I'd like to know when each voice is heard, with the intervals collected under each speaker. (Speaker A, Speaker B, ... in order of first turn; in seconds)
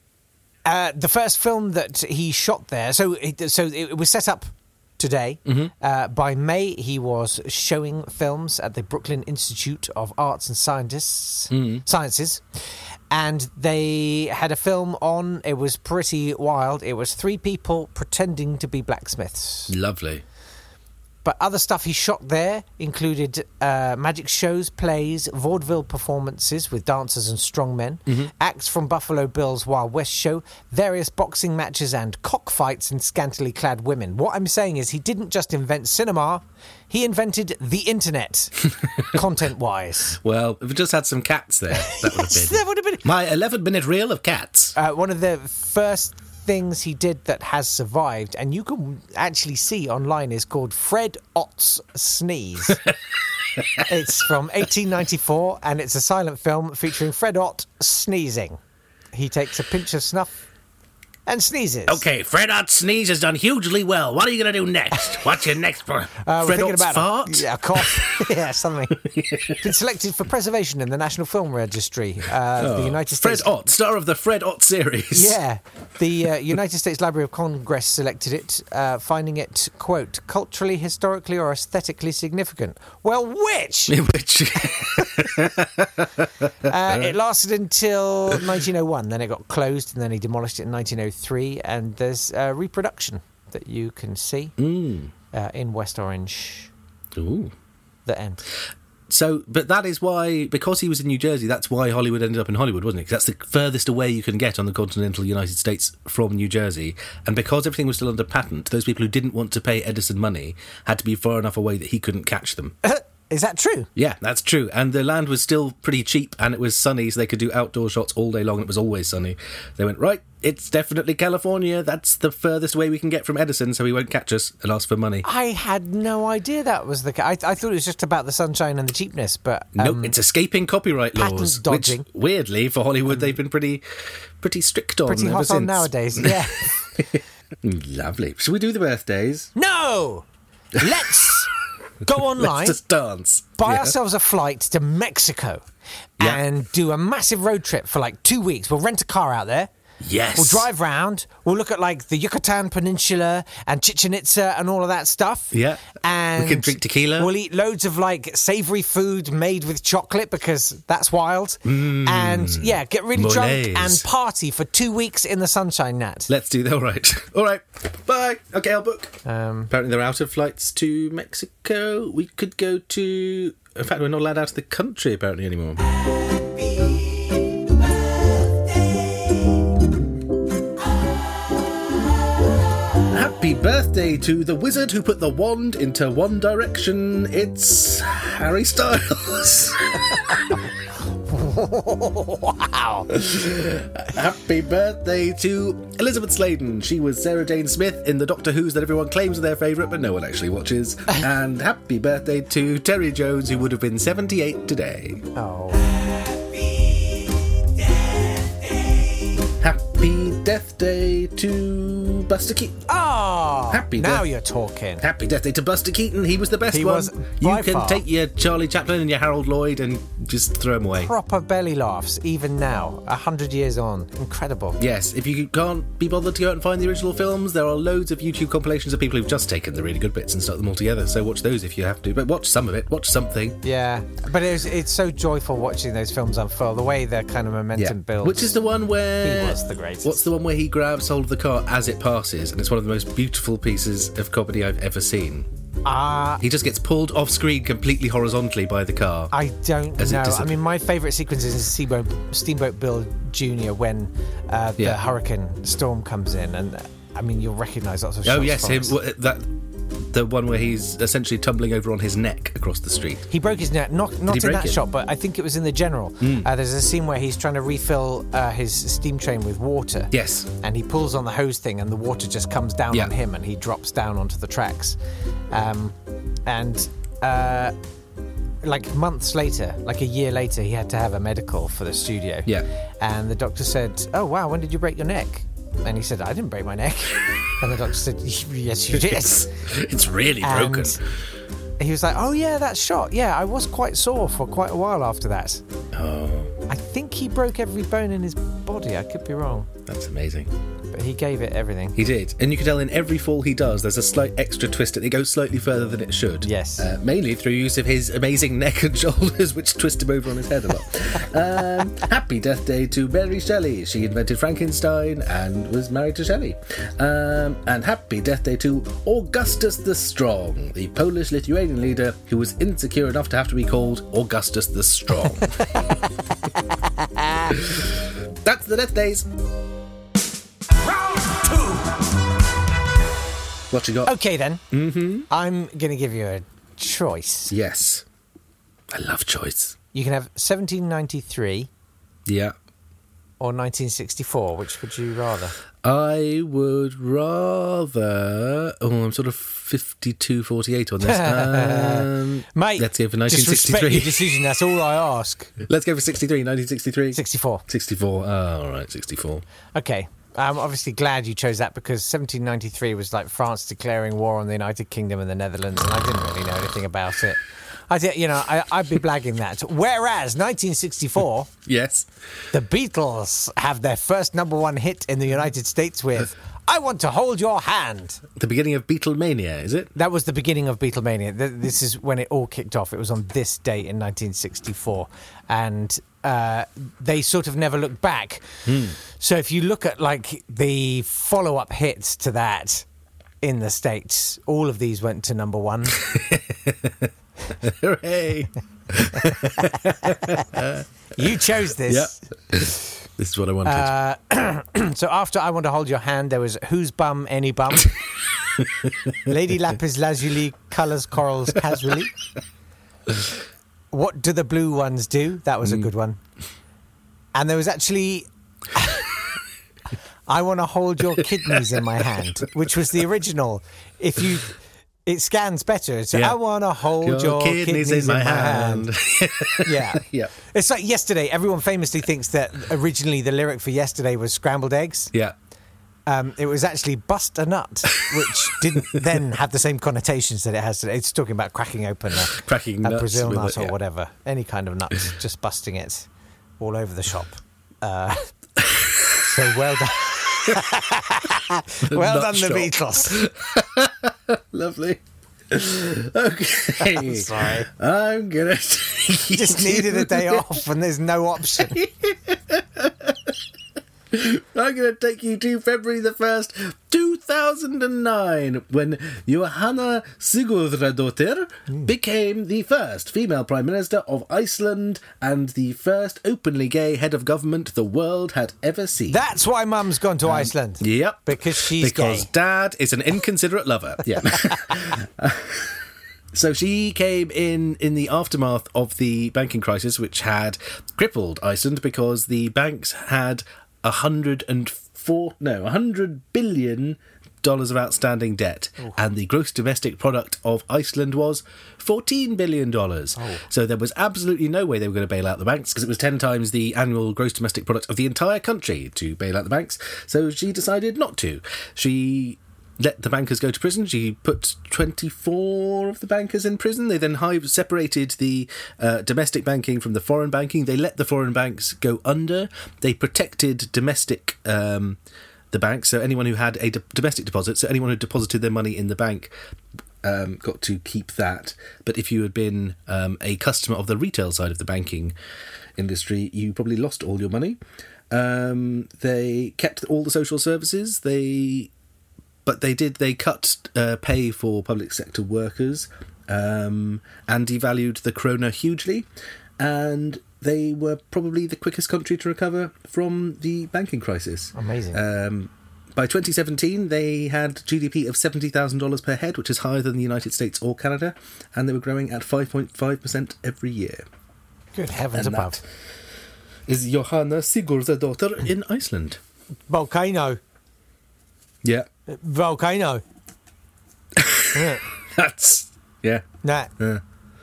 Speaker A: 0.6-12.4, 13.1-19.7, 21.2-40.2, 41.7-43.0, 44.8-52.8, 53.8-58.6, 59.1-60.3, 61.2-62.0, 66.2-69.0, 69.6-73.5, 75.1-84.0, 85.0-85.3, 86.6-94.5, 95.3-96.7, 98.0-98.5, 112.8-113.9, 125.2-130.1, 131.2-132.1, 135.1-136.9, 139.6-141.5, 142.0-142.8, 143.6-145.6, 146.2-149.7, 150.3-166.3, 169.2-169.7, 176.4-177.7, 178.6-179.7, 191.3-193.1, 205.3-209.3, 212.9-215.0, 216.7-218.0, 221.0-224.8, 233.6-238.5, 239.2-240.2, 245.8-246.4, 249.3-258.9, 263.3-275.0, 275.5-275.9, 276.4-277.7, 278.6-282.5, 283.0-289.6, 290.4-291.0, 291.8-295.6, 296.7-299.7, 300.9-301.9, 306.4-306.9, 325.6-325.9, 326.5-327.5, 330.8-332.0, 334.0-334.6, 335.3-337.5, 339.9-341.7, 343.4-345.5, 351.0-355.5, 357.1-357.6, 359.7-371.5, 372.5-378.2, 379.9-392.9, 393.4-396.0, 400.0-400.4, 401.1-402.2, 403.6-407.9, 409.2-412.1, 413.9-416.2, 417.3-419.1, 420.3-428.9, 429.6-435.1, 436.1-446.1, 446.6-448.3, 449.2-453.2, 456.8-457.7, 459.3-461.8, 479.1-482.3, 503.1-503.4, 554.5-555.0, 564.7-565.6, 569.7-570.4, 572.1-573.0, 574.5-574.8, 576.4-576.7
Speaker B: 5.5-5.7, 11.5-11.8, 19.7-20.2, 40.2-44.8, 61.9-68.3, 68.9-69.7, 72.6-75.4, 83.9-87.2, 94.6-95.1, 97.2-97.5, 99.1-112.8, 114.0-125.2, 129.8-133.8, 134.4-139.5, 140.8-141.1, 142.2-143.9, 150.0-150.7, 155.5-157.3, 161.6-164.0, 166.3-169.2, 169.7-175.8, 183.0-190.6, 193.1-205.2, 209.6-212.8, 213.7-214.2, 215.0-221.1, 224.8-233.6, 237.8-245.5, 246.4-249.3, 250.0-250.6, 258.2-263.2, 264.3-264.8, 266.2-266.5, 270.1-270.5, 288.9-291.0, 295.9-296.5, 299.9-300.5, 302.0-325.9, 327.5-329.3, 333.7-334.1, 334.7-335.3, 337.5-338.0, 338.9-339.8, 342.2-342.5, 345.8-354.5, 355.6-359.4, 371.6-372.1, 378.4-379.9, 388.6-389.0, 395.9-400.8, 401.9-403.9, 408.6-408.9, 421.5-421.8, 427.0-430.3, 442.2-443.7, 448.6-449.3, 451.8-460.6, 461.6-463.3, 464.1-479.2, 480.2-485.8, 486.3-525.0, 525.5-529.3, 530.0-535.1, 535.8-537.6, 538.1-541.7, 542.5-549.1, 549.6-564.0, 565.1-565.6, 566.7-569.2, 574.1-576.2